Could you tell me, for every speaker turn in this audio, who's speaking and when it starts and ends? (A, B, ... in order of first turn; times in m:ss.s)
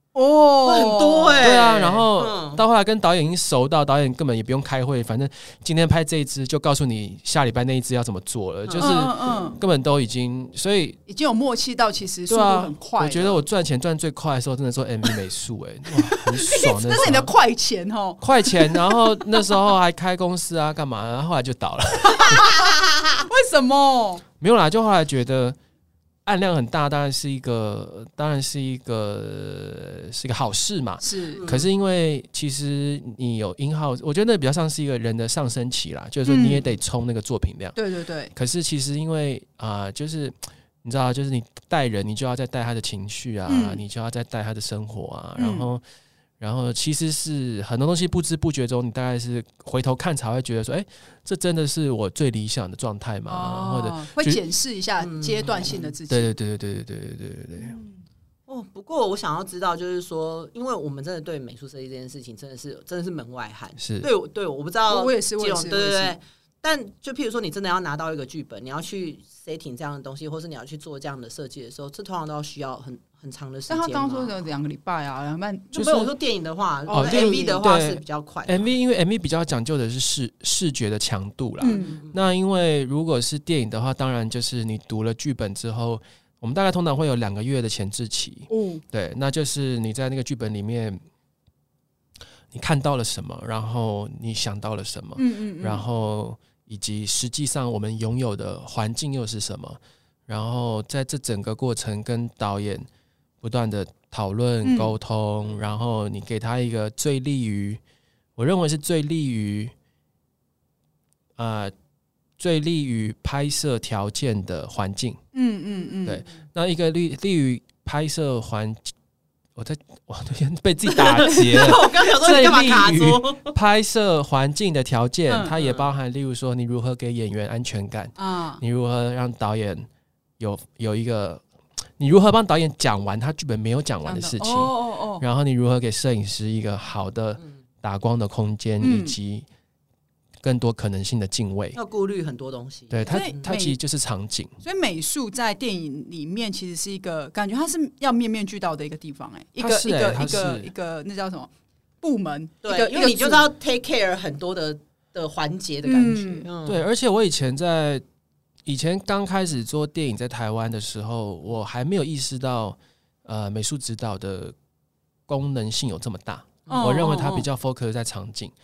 0:00.1-0:01.4 A
0:00.6-0:02.6 B
0:01.4-0:11.0 C
0:08.7-0:09.0 B
0:08.8-0:09.6 A
0:11.1-0:13.4 A
0:12.3-0:17.3 C
0:16.1-0:19.5 A
0:18.2-0:22.6 C
0:22.1-0:22.6 A
0:22.5-0:23.2 B
0:23.3-0:24.2 A
0:24.4-0:25.6 C
0:26.2-0:37.8 C
0:31.0-0:31.4 A
0:31.4-0:31.7 B
0:36.2-0:36.7 A
0:37.8-0:38.3 A
0:38.3-0:45.8 C
0:43.5-0:43.8 A
0:45.4-0:45.7 A
0:46.4-0:54.4 C
0:53.3-0:56.3 A
0:55.0-0:55.9 B
0:56.1-0:57.8 C
0:57.6-0:58.0 A
0:58.5-1:14.4 B
1:03.8-1:04.1 C
1:04.9-1:06.2 A
1:13.7-1:16.1 A
1:15.7-1:18.7 B
1:15.8-1:16.1 C
1:16.9-1:17.6 A
1:16.9-1:31.0 C
1:21.6-1:22.0 A
1:21.6-1:22.2 B
1:28.5-1:28.8 A
1:32.5-1:42.9 C
1:35.2-1:35.8 A
1:43.4-1:47.8 C
1:44.6-1:44.9 A
1:48.4-1:49.7 C
1:51.4-1:51.7 C
1:52.4-1:55.2 C
1:55.3-1:56.2 A
1:56.0-1:58.9 C
1:59.6-2:09.9 C
2:00.9-2:03.5 B
2:05.3-2:05.5 A
2:05.5-2:05.9 B
2:08.2-2:08.6 A
2:10.4-2:11.4 C
2:12.0-2:19.5 C
2:14.0-2:15.2 A
2:18.8-2:19.2 A
2:20.4-2:21.8 C
2:21.8-2:23.5 B
2:22.9-2:24.5 C
2:23.1-2:23.8 A
2:24.6-2:31.5 A
2:29.6-2:30.7 C
2:32.0-2:33.5 A
2:32.6-2:36.9 B
2:35.9-2:36.5 A
2:36.7-2:38.0 C
2:38.6-2:44.6 C
2:45.3-2:48.5 C
2:46.7-2:47.4 B
2:46.7-2:47.4 A